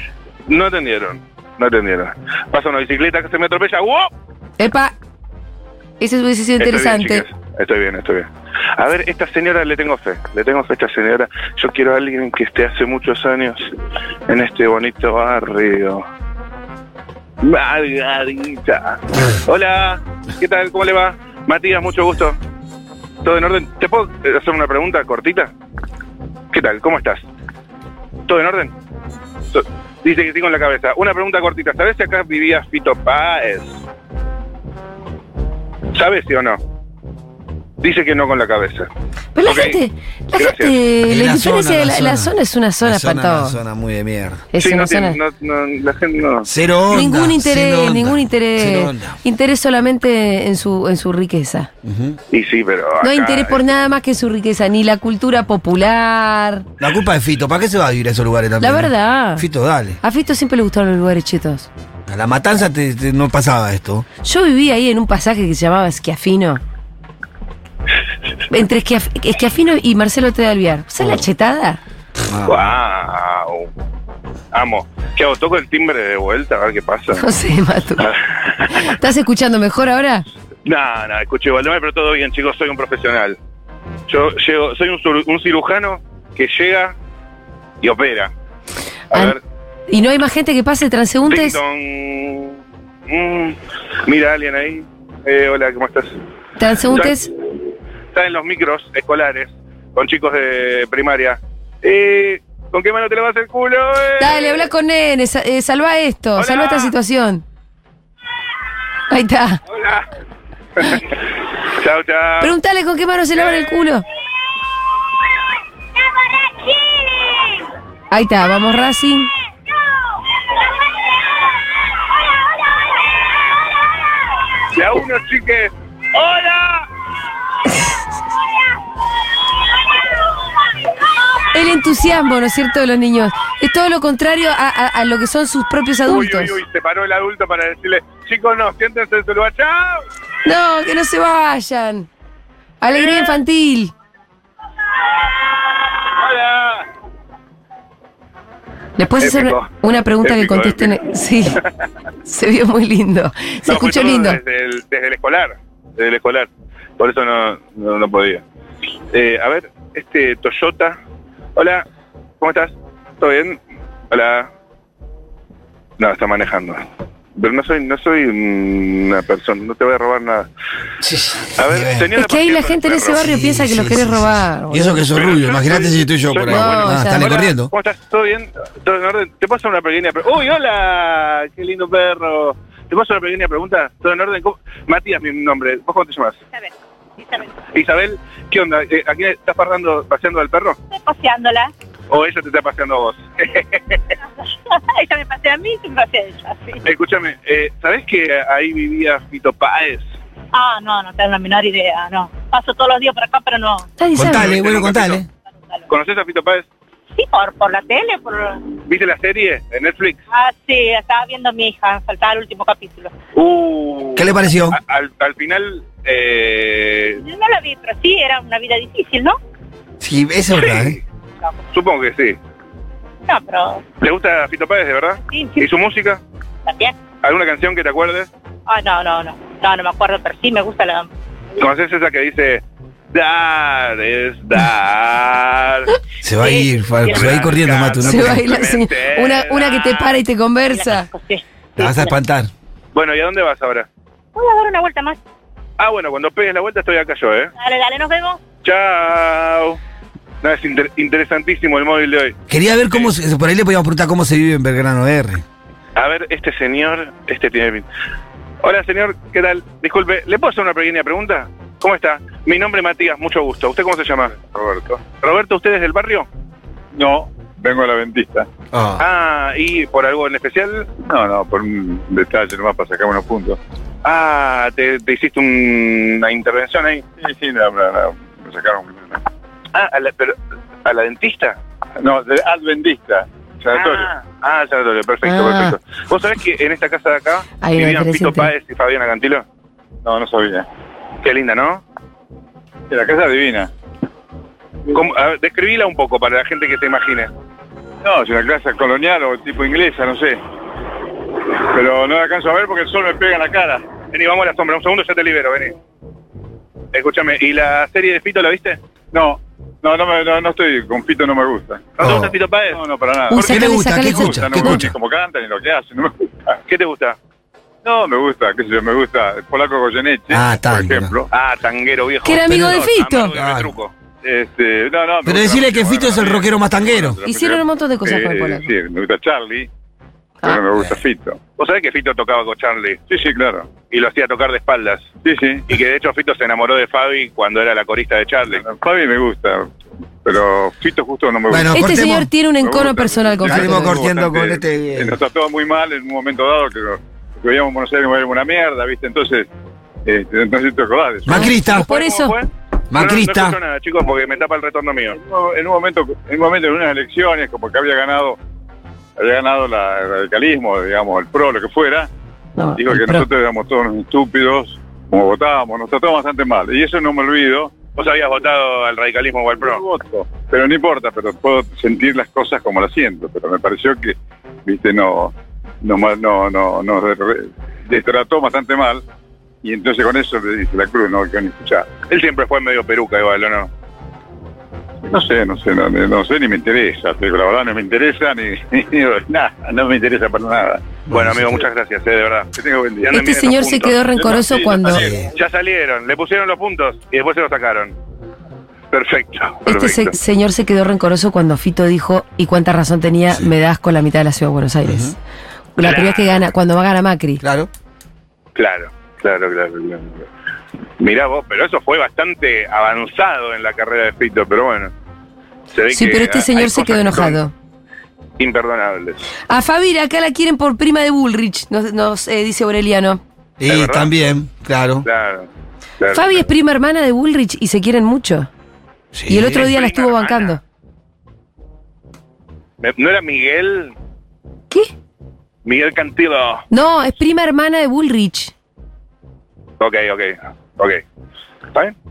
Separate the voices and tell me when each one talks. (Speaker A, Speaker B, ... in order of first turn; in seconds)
Speaker A: 0.5-4.1, 6.6-13.7, 14.3-16.1, 17.4-22.4, 23.2-25.5, 26.5-27.2, 28.2-28.7, 29.5-33.8, 35.9-36.6, 37.8-38.9, 39.4-39.8, 40.4-40.7, 44.6-46.5, 52.3-53.7, 72.5-73.7, 74.5-77.2, 78.0-78.9, 80.6-83.4, 84.1-86.9, 87.8-88.3, 89.1-89.4, 91.2-96.2, 98.1-104.7, 106.4-106.9, 109.7-110.1, 110.8-111.2, 111.7-112.5, 124.7-126.9, 136.0-140.1, 142.9-143.2, 145.9-146.8, 149.2-151.0, 153.7-158.4, 159.1-161.0, 161.5-161.8, 162.4-164.5, 166.0-170.5, 171.6-173.2, 175.2-186.4, 187.7-190.8, 192.1-194.0, 196.8-200.1, 204.2-205.2, 205.9-206.7, 208.8-210.2, 213.3-217.2, 220.6-221.0, 221.7-222.4, 224.0-226.2, 227.2-228.3, 231.6-235.9, 237.1-240.2, 242.9-243.9, 245.8-247.5, 248.6-249.8, 250.4-252.4, 255.9-257.9, 258.6-264.4, 265.0-266.3, 269.0-270.9, 274.0-277.1, 279.7-281.6, 283.7-289.4, 291.2-291.8, 294.9-297.3, 304.1-305.8, 306.9-308.8, 312.0-312.8, 316.6-317.2, 321.3-323.9, 331.6-333.0, 333.8-335.1, 335.7-338.6, 351.6-355.2, 367.9-369.8, 382.0-383.7, 391.1-394.6, 395.3-397.9, 398.9-400.1, 405.8-406.4, 408.5-410.2, 411.0-414.9, 415.7-417.4, 418.4-419.2, 423.6-424.1, 425.0-426.4, 429.4-430.6, 432.8-433.9, 435.6-436.6, 439.8-441.0
Speaker B: 4.6-4.9, 6.0-7.2, 39.3-43.6, 44.5-45.2, 46.9-51.7, 53.0-56.7, 58.6-59.4, 60.0-61.7, 64.2-66.6, 68.5-71.8, 77.2-78.1, 78.7-80.2, 89.9-91.6, 96.6-97.3, 104.2-107.4, 109.1-109.6, 112.4-114.0, 118.1-119.3, 127.7-128.0, 131.5-136.5, 140.4-142.1, 142.8-143.9, 149.0-151.6, 152.2-154.4, 172.1-175.1, 176.5-177.4, 204.0-204.6, 238.0-241.1, 285.2-285.7, 287.6-288.5, 313.3-314.8, 322.2-323.3, 327.2-328.7, 341.7-344.0, 351.3-352.4, 362.6-363.3, 393.1-395.1, 399.6-405.1, 405.8-407.4, 415.9-417.5, 419.5-423.2, 426.1-428.5, 429.3-430.6, 436.7-438.5
Speaker C: 41.0-44.5, 46.4-49.2, 51.8-52.2, 56.8-60.0, 62.1-64.0, 72.3-72.6, 171.0-172.1, 173.2-177.7, 204.1-205.3, 214.2-214.8, 220.0-221.0, 236.2-238.5, 241.8-242.5, 252.5-255.4, 268.7-269.0, 312.0-312.3, 313.3-314.9, 320.3-321.1, 322.5-322.8, 323.3-323.7, 325.2-327.2, 341.5-342.3, 343.5-345.2, 351.2-351.9, 352.9-353.6, 391.1-391.4, 394.9-395.3, 404.9-405.1, 407.4-407.7, 423.6-425.1, 429.1-429.7
Speaker D: 116.4-117.6, 186.5-187.6, 190.9-191.7, 194.7-196.8, 200.5-203.9, 207.1-208.7, 210.3-213.1, 217.2-219.4, 223.2-223.8, 225.2-225.7, 226.7-227.0, 228.7-231.1, 236.4-237.4, 240.7-242.1, 244.3-245.2, 247.6-248.4
Speaker E: 264.5-265.0, 266.9-268.5, 271.0-273.6, 277.2-279.2, 282.0-284.1, 290.0-290.7, 292.9-293.7, 298.0-300.4, 301.7-303.8, 309.1-312.2, 312.7-316.6, 317.8-321.3, 324.2-329.7, 330.4-331.4, 333.1-333.7, 335.2-335.6, 338.6-339.7, 340.2-342.0, 342.6-349.5, 350.0-351.5, 355.2-358.4, 359.1-362.1, 362.8-367.7, 369.5-379.0, 379.6-381.9, 385.1-391.0, 392.5-393.1, 394.1-395.3